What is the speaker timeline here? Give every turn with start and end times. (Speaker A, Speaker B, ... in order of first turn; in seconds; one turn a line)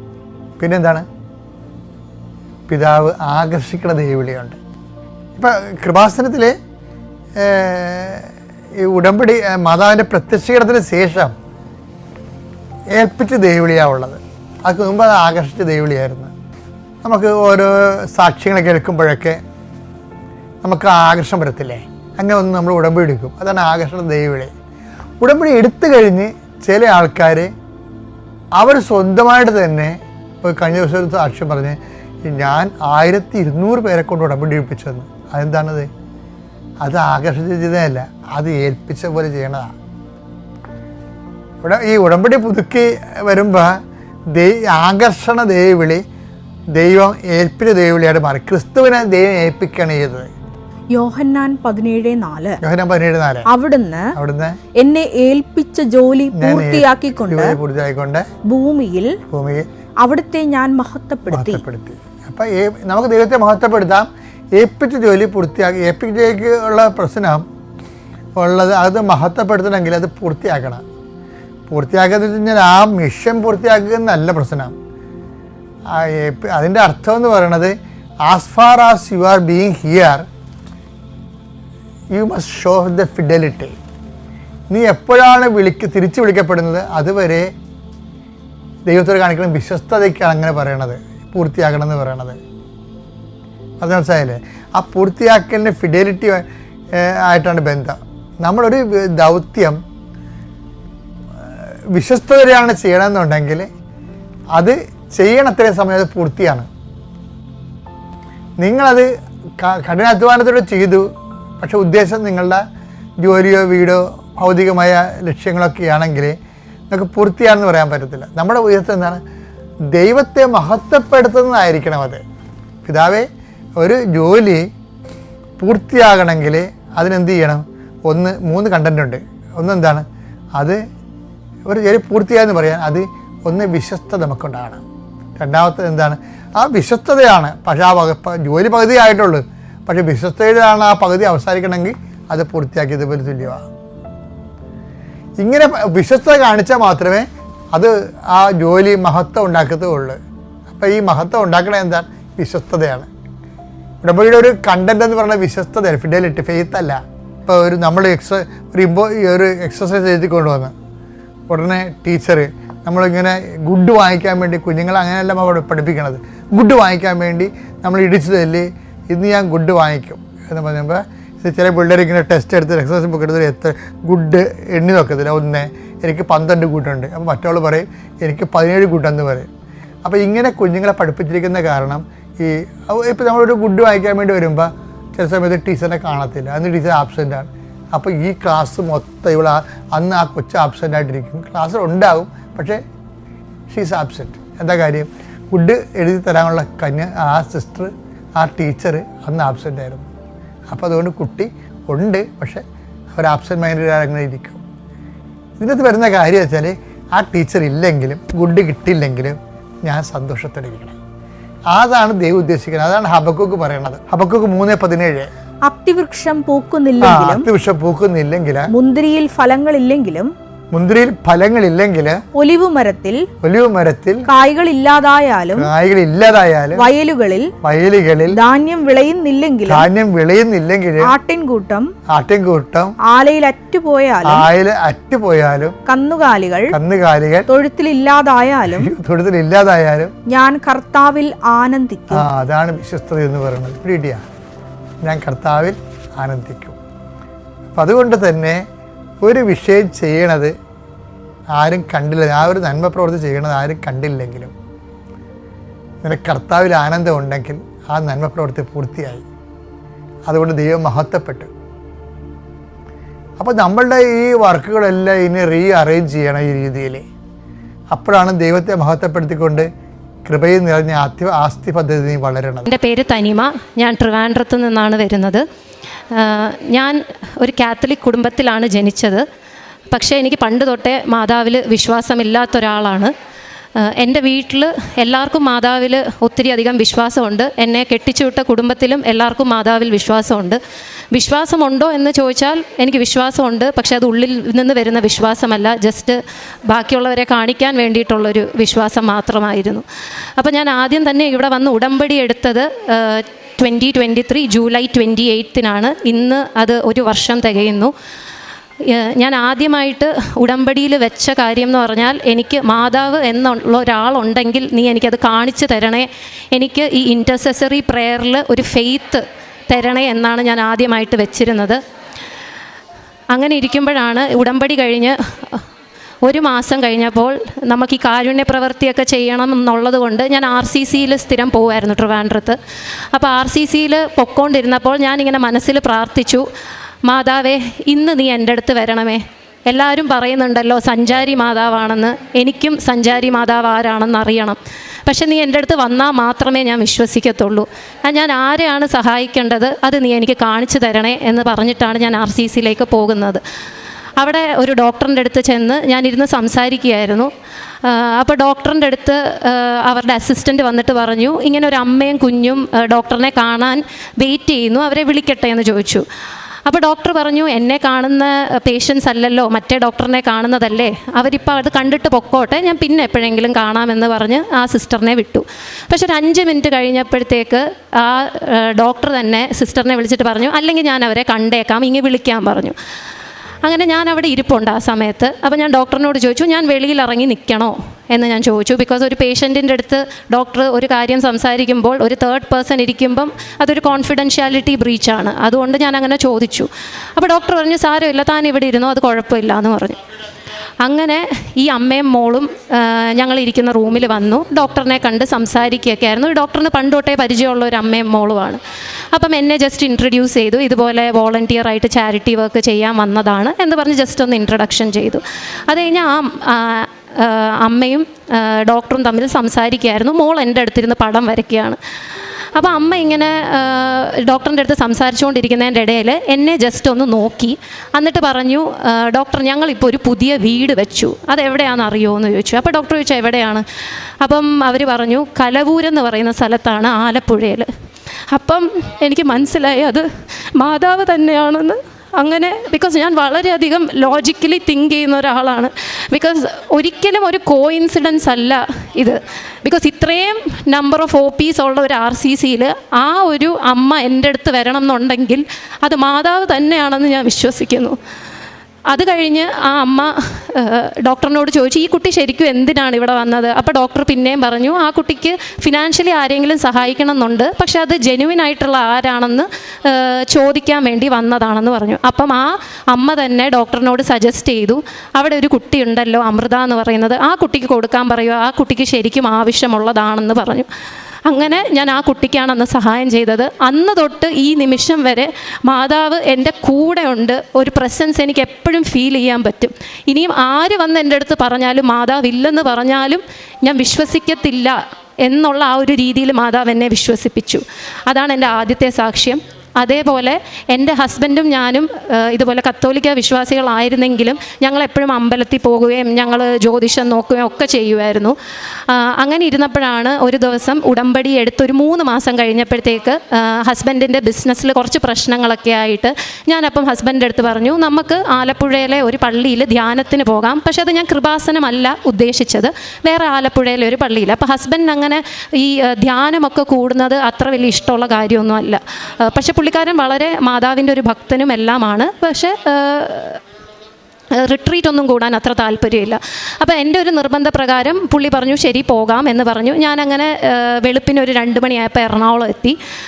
Speaker A: 0.6-1.1
Speaker A: 2.7-4.6
Speaker A: 5.4-6.5
Speaker A: 7.4-8.3
Speaker A: 8.8-11.3
Speaker A: 12.9-16.3
Speaker A: 17.0-19.4
Speaker A: 20.6-24.5
Speaker A: 25.2-27.5
Speaker A: 28.6-35.9
Speaker A: 36.8-39.8
Speaker A: 41.6-43.8
Speaker A: 44.3-46.0
Speaker A: 46.7-50.3
Speaker B: 50.9-52.6
Speaker A: 52.6-53.5
Speaker B: 53.5-54.1
Speaker A: 54.1-54.6
Speaker B: 54.8-57.6
Speaker A: 56.3-58.3
Speaker B: 58.5-59.2
Speaker A: 59.3-59.7
Speaker B: 60.0-61.6
Speaker A: 61.3-67.4
Speaker A: 68.4-70.8
Speaker A: 71.7-74.8
Speaker A: 75.9-77.7
Speaker A: 78.2-80.2
Speaker A: 82.1-83.8
Speaker A: 84.7-87.5
Speaker A: 88.9-92.4
Speaker A: 93.8-99.8
Speaker A: 101.9-103.7
Speaker A: 104.5-106.7
Speaker A: 108.6-109.1
Speaker A: 109.6-111.0
Speaker A: 111.6-112.6
Speaker A: 113.2-116.4
Speaker A: 116.9-119.2
Speaker A: 119.9-122.2
Speaker A: 122.8-123.3
Speaker A: 123.8-124.6
Speaker A: 125.6-130.1
Speaker A: 130.6-130.8
Speaker A: 131.7-134.8
Speaker A: 135.4-143.7
Speaker A: 145.4-153.1
Speaker A: 154.0-160.7
Speaker A: 161.5-179.5
Speaker A: 180.1-192.8
Speaker A: 193.7-200.1
Speaker A: 200.7-204.6
Speaker A: 205.6-210.9
Speaker A: 211.7-215.3
Speaker B: 215.7-217.4
Speaker A: 217.0-218.7
Speaker B: 218.7-220.3
Speaker A: 220.7-222.2
Speaker B: 222.4-223.2
Speaker A: 223.4-224.2
Speaker B: 224.3-225.7
Speaker A: 225.5-226.8
Speaker B: 226.8-227.5
Speaker A: 227.6-228.4
Speaker B: 228.3-229.9
Speaker A: 229.7-231.1
Speaker B: 231.1-231.9
Speaker A: 232.1-232.9
Speaker B: 233.1-234.4
Speaker A: 234.2-235.8
Speaker B: 235.9-236.7
Speaker A: 236.7-237.5
Speaker B: 237.5-238.9
Speaker A: 238.7-240.1
Speaker B: 240.3-242.2
Speaker A: 242.1-244.2
Speaker A: 245.0-246.8
Speaker A: 247.7-248.6
Speaker A: 249.2-250.5
Speaker A: 251.6-254.5
Speaker A: 256.0-259.2
Speaker A: 260.3-261.5
Speaker A: 263.4-267.0
Speaker A: 267.9-269.7
Speaker A: 270.2-272.7
Speaker C: 272.7-275.4
Speaker C: 276.1-279.2
Speaker C: 279.9-283.1
Speaker C: 283.8-290.6
Speaker C: 291.1-299.8
Speaker C: 300.4-307.9
Speaker C: 308.8-321.8
Speaker C: 323.3-325.6
Speaker C: 326.2-332.6
Speaker C: 333.1-336.4
Speaker C: 337.1-353.4
Speaker C: 354.2-357.3
Speaker C: 357.8-366.0
Speaker C: 366.6-382.8
Speaker C: 383.6-400.0
Speaker C: 400.8-408.6
Speaker C: 409.1-421.8
Speaker C: 422.6-433.6
Speaker C: 434.2-437.7
Speaker C: 438.3-440.1
Speaker C: 440.6-458.0
Speaker C: 458.9-480.7
Speaker C: 481.3-508.4
Speaker C: 508.9-533.4
Speaker C: 534.4-542.8